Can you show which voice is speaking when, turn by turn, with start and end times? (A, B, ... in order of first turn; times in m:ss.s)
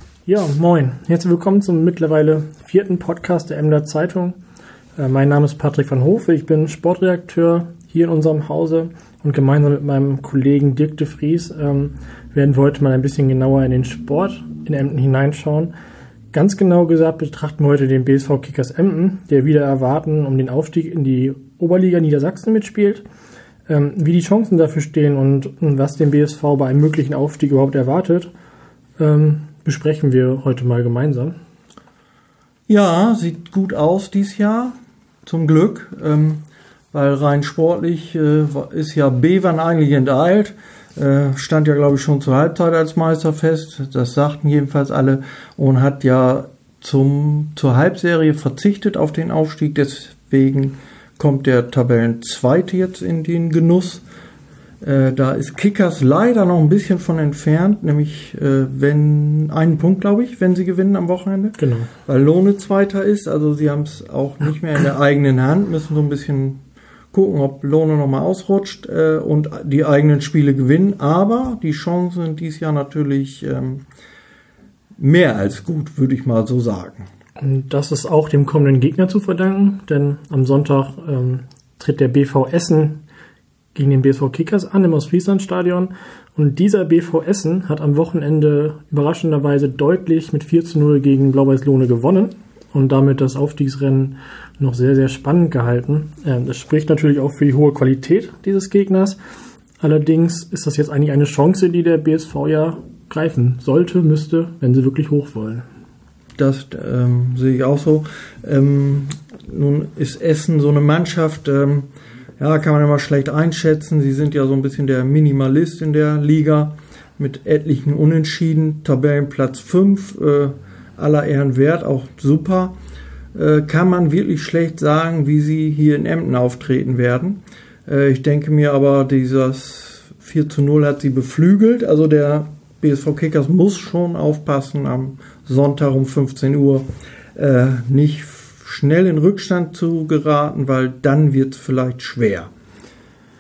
0:00.3-0:04.4 A
0:05.0-0:15.7 A
0:16.3-0:23.0 A
0:23.7-0:28.3 A
0:29.0-0:31.4 A
0:32.7-0:54.0 B
0:54.8-1:06.6 B
1:01.6-1:01.9 A
1:07.1-1:13.8 B
1:15.0-1:17.1 B
1:17.4-1:23.0 A
1:23.7-1:39.2 A
1:39.8-1:45.6 A
1:46.4-1:51.9 B
1:52.4-2:02.8 B
2:03.4-2:22.5 B